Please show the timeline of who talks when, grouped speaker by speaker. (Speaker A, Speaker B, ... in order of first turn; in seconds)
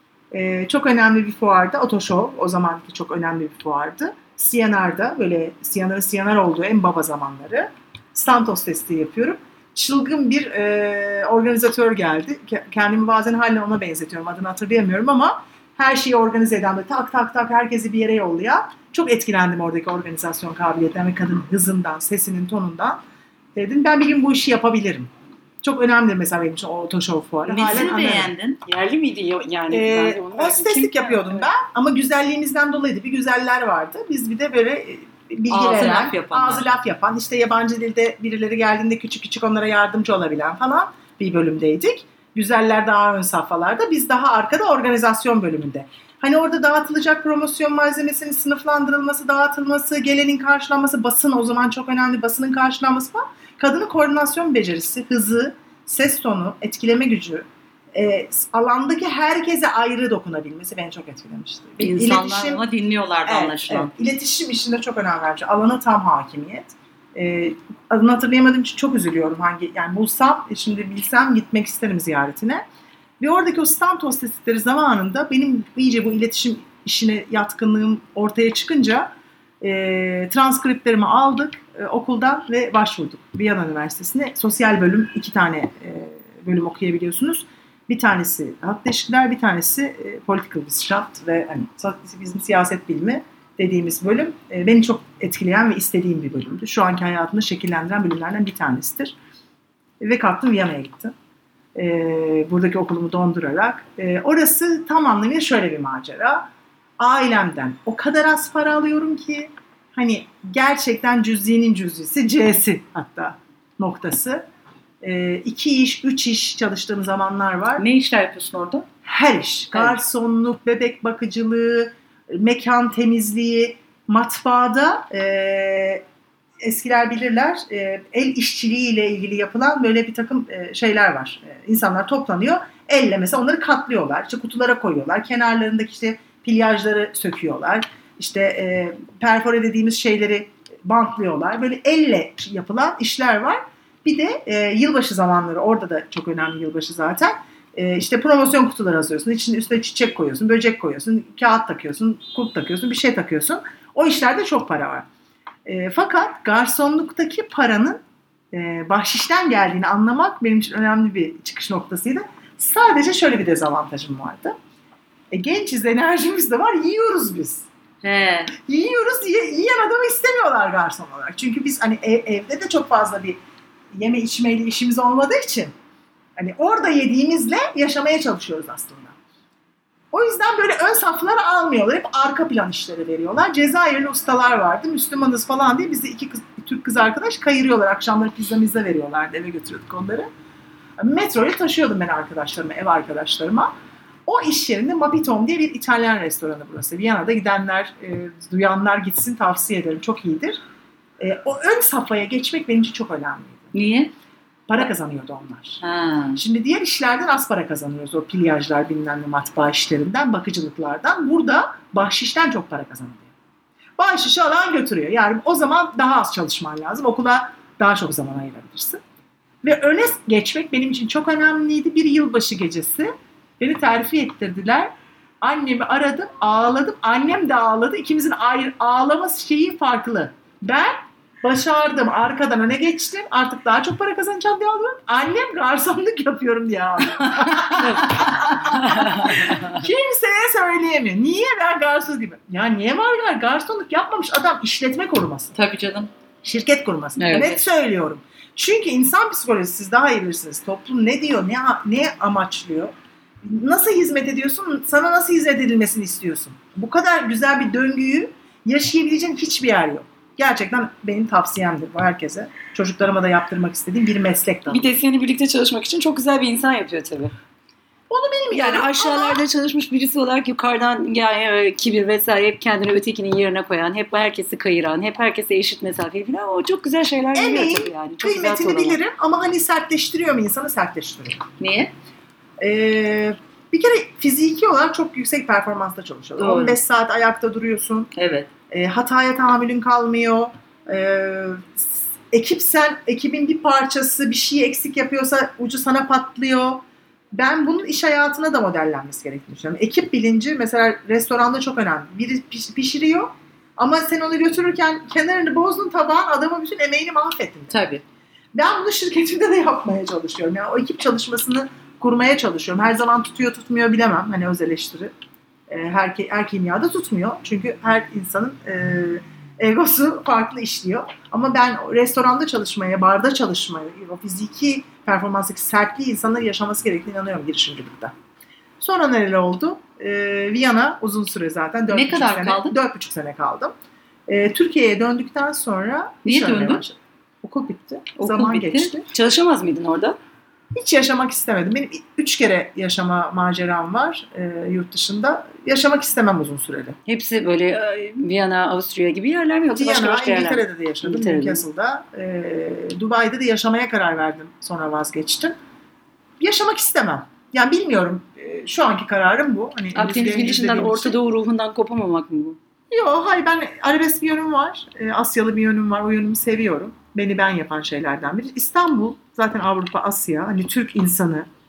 Speaker A: 0.3-23.0, 23.5-25.1, 25.6-28.3, 29.7-62.6, 63.2-72.6, 73.2-99.2, 100.0-101.1, 101.7-106.5, 107.0-114.5, 115.0-117.8, 119.0-126.0, 126.6-155.1, 155.6-164.6, 165.3-167.7, 168.5-173.4, 173.9-175.7, 176.3-179.2, 180.1-190.3, 191.0-193.7, 194.2-200.6, 201.2-203.7, 204.7-205.8, 206.3-213.3, 214.0-219.0, 219.6-245.6, 246.4-264.8, 268.1-269.4, 277.3-281.4, 282.6-288.1, 288.7-307.8, 308.5-315.1, 315.7-328.1, 328.8-333.7, 334.3-339.1, 340.7-347.0, 349.7-355.5, 356.4-361.1, 362.9-371.5
Speaker B: 27.4-28.6, 35.5-36.6, 61.8-63.9, 117.8-118.9, 168.0-168.5, 203.7-204.1, 205.8-206.4, 237.6-239.6, 245.6-246.1, 247.2-247.6, 281.6-281.9, 286.4-286.8, 288.1-288.5, 307.7-308.0, 331.9-332.7, 336.2-336.8, 338.2-338.9
Speaker C: 28.6-31.5, 264.7-267.3, 268.5-279.0, 339.1-340.2, 347.1-351.6, 359.9-362.6